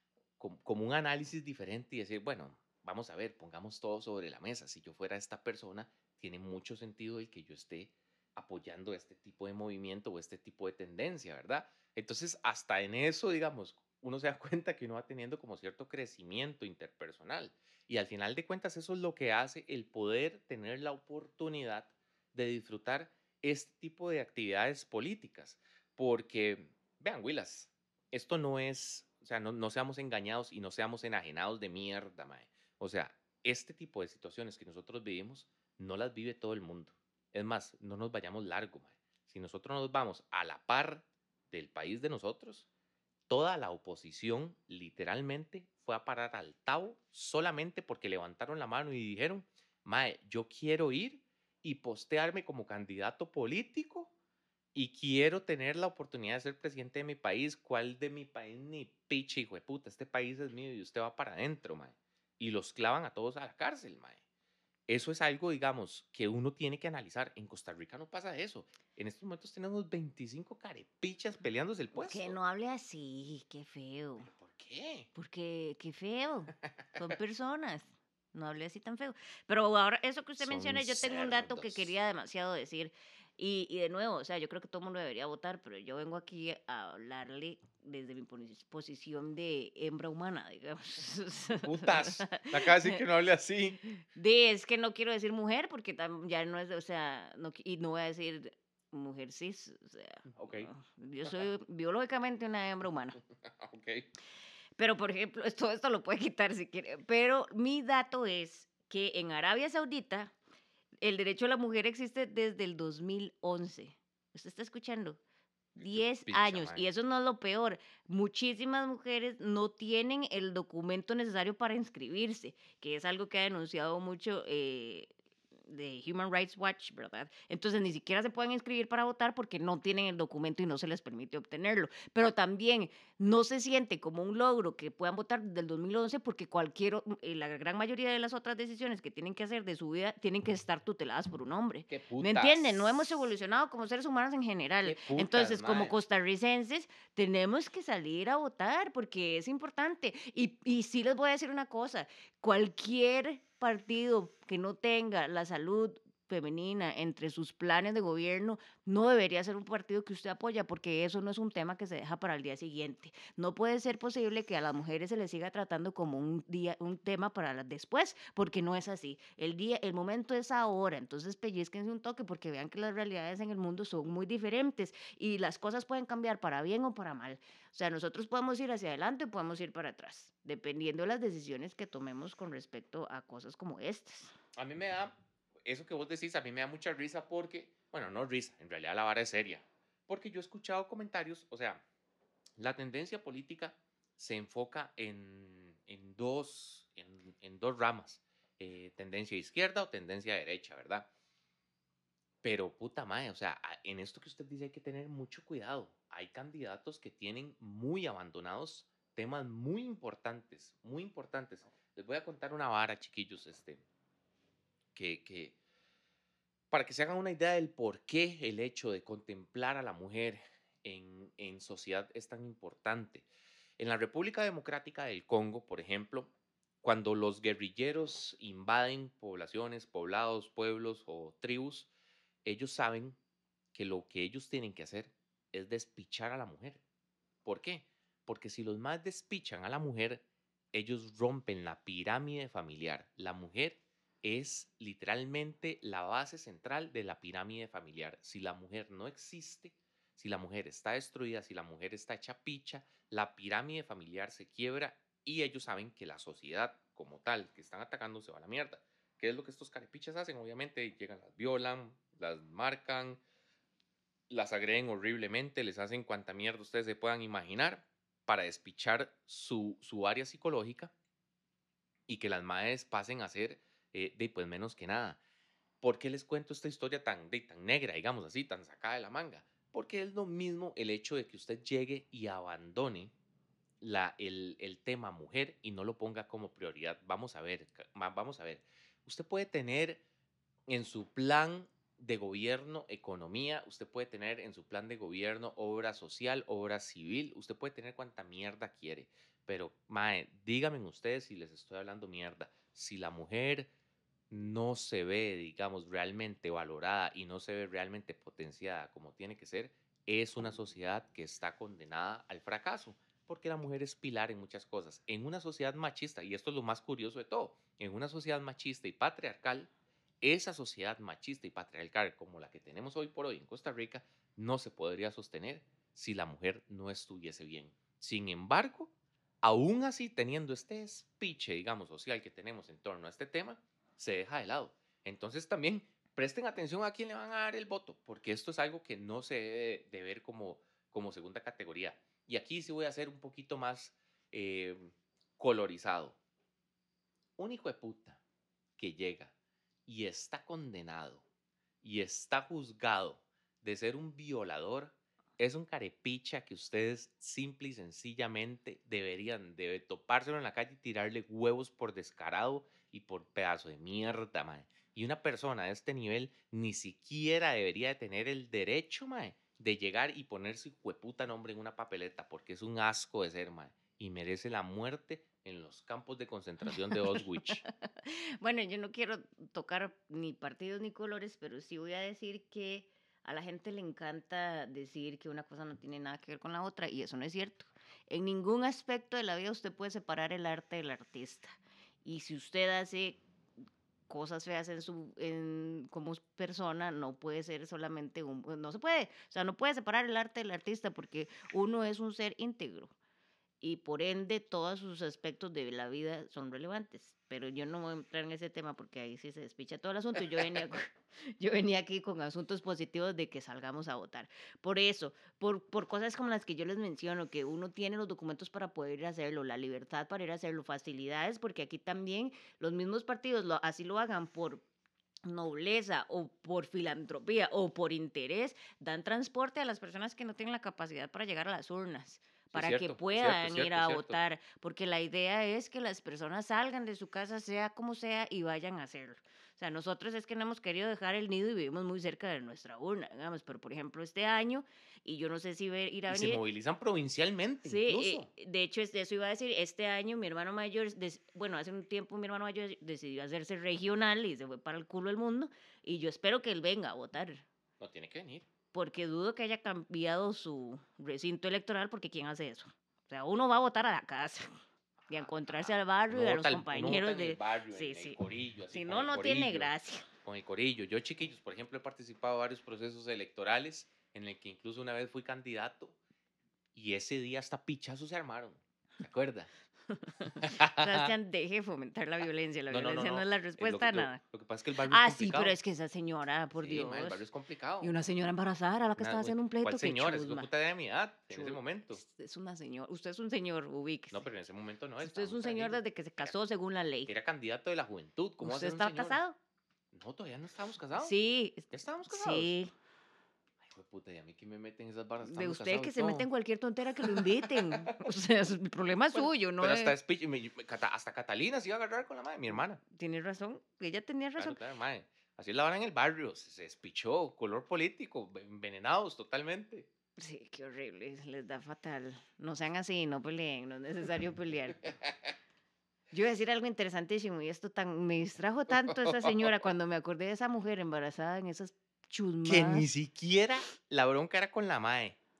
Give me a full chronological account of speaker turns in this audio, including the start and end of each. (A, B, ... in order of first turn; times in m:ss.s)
0:00.4-0:42.7 A
0:43.3-0:54.1 A
0:54.7-1:04.2 A
1:04.9-1:12.3 A
1:11.9-1:14.3 B
1:14.3-1:15.1 A
1:15.1-1:33.0 B
1:16.7-1:17.0 A
1:20.4-1:21.9 A
1:31.5-1:33.8 A
1:34.1-1:43.2 B
1:40.3-1:40.7 A
1:43.4-1:44.1 A
1:44.8-1:50.3 B
1:51.0-1:55.2 B
1:55.8-1:56.9 A
1:55.8-2:05.1 B
2:05.7-3:04.3 B
2:21.9-2:23.2 A
2:24.8-2:26.0 A
3:04.5-3:11.8 A
3:12.6-3:21.1 A
3:22.4-3:33.8 A
3:34.9-3:35.5 A
3:36.7-3:43.2 A
3:43.8-3:46.3 A
3:46.8-3:51.9 A
3:52.4-3:53.2 A
3:53.7-3:56.8 A
3:57.4-4:23.2 A
4:24.3-4:30.9 A
4:32.1-4:35.2 A
4:35.8-4:43.1 A
4:43.8-4:50.0 A
4:50.7-5:03.7 A
5:04.3-5:19.7 A
5:20.2-5:28.9 A
5:29.4-5:46.2 A
5:47.4-5:48.2 A
5:48.8-5:49.3 A
5:49.9-5:51.2 A
5:51.8-6:17.6 A
6:16.9-6:17.2 B
6:17.9-6:33.2 B
6:34.1-6:42.9 B
6:43.6-7:04.6 B
7:05.3-7:26.4 B
7:12.5-7:14.2 A
7:26.1-7:28.3 A
7:27.6-7:37.4 B
7:37.8-7:38.5 A
7:38.7-7:44.5 B
7:45.1-7:49.7 A
7:45.1-7:48.2 B
7:48.7-7:50.0 B
7:50.2-7:56.0 A
7:56.7-7:59.5 A
7:59.9-8:04.2 B
8:00.2-8:01.1 A
8:02.7-8:05.6 A
8:04.9-8:07.2 B
8:06.6-8:07.9 A
8:07.8-8:10.5 B
8:09.0-8:12.0 A
8:11.3-8:14.2 B
8:14.1-8:16.3 A
8:15.0-8:17.1 B
8:17.1-8:19.2 A
8:18.4-8:19.4 B
8:19.9-8:21.1 A
8:21.0-8:22.7 B
8:21.7-8:22.5 A
8:23.6-8:26.3 A
8:25.2-8:30.0 B
8:27.0-8:28.0 A
8:29.1-8:32.8 A
8:32.9-8:34.6 B
8:34.4-8:39.9 A
8:40.2-8:44.9 B
8:44.8-8:45.3 A
8:46.1-8:52.9 B
8:48.8-8:49.5 A
8:52.4-8:55.2 A